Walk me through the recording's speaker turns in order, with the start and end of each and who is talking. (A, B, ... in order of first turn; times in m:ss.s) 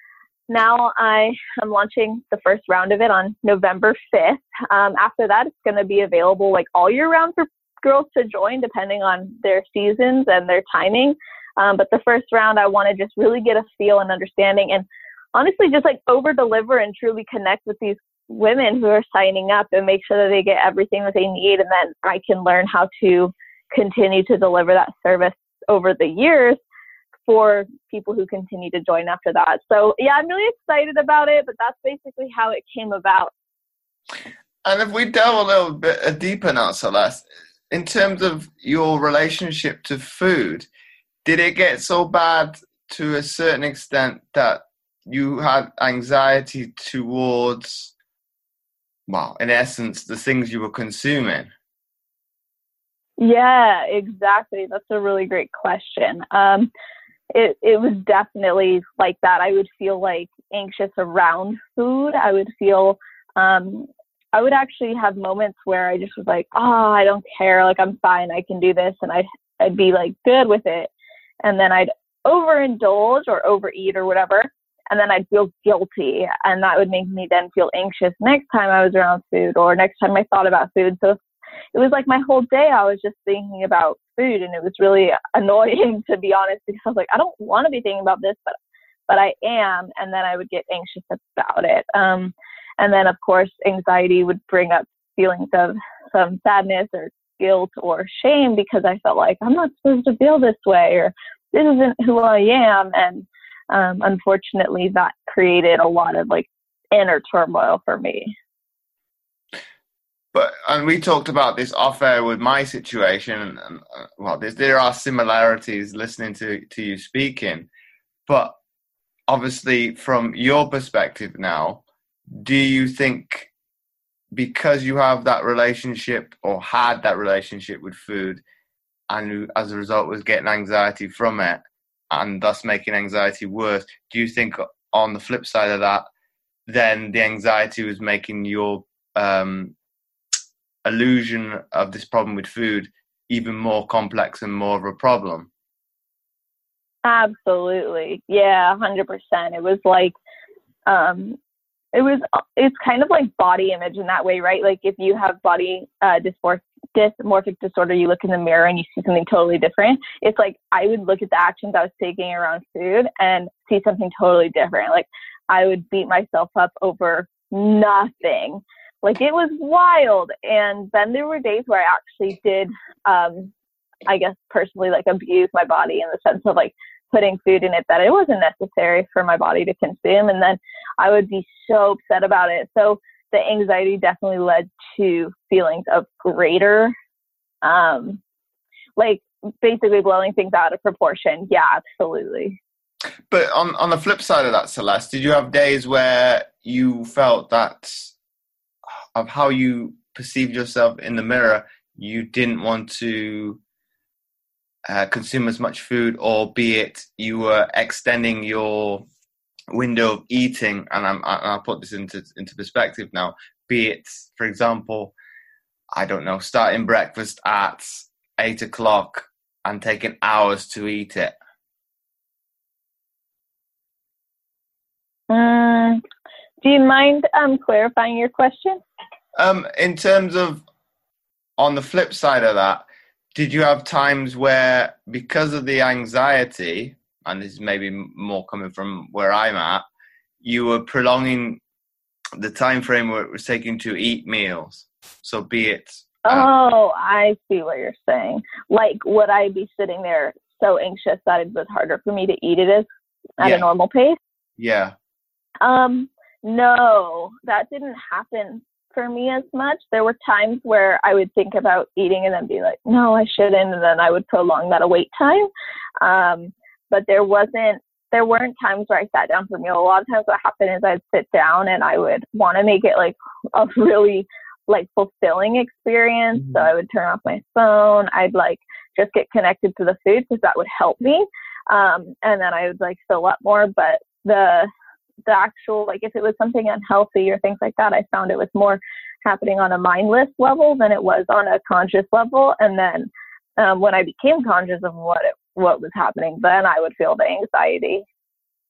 0:00.5-0:26.6 A
0:27.3-0:33.3 A
0:34.6-0:40.7 B
0:41.2-0:47.9 B
0:49.1-0:51.5 B
0:53.2-0:56.7 A
0:57.3-1:10.9 A
1:11.4-1:21.2 A
1:21.7-1:28.6 A
1:29.1-1:48.3 A
1:50.3-1:57.7 B
1:58.3-1:58.6 B
1:59.3-2:01.8 B
2:02.4-2:03.5 B
2:04.3-2:08.4 B
2:09.1-2:16.0 B
2:16.7-2:19.7 B
2:20.8-2:25.5 B
2:27.0-2:30.1 A
2:30.9-2:31.4 A
2:31.9-2:53.5 A
2:54.0-3:06.9 A
3:07.6-3:08.2 A
3:09.0-3:12.6 A
3:13.3-3:18.1 B
3:19.1-3:23.6 B
3:24.9-3:29.1 B
3:29.7-3:35.1 B
3:35.9-3:41.3 B
3:45.3-3:46.0 A
3:46.6-3:48.8 A
3:49.4-3:50.6 B
3:51.6-3:59.8 B
4:00.4-4:01.6 B
4:02.4-4:06.5 B
4:06.2-4:14.2 A
4:13.4-4:13.7 B
4:14.6-4:14.9 B
4:15.6-4:25.5 A
4:26.0-4:44.7 A
4:45.2-4:58.0 A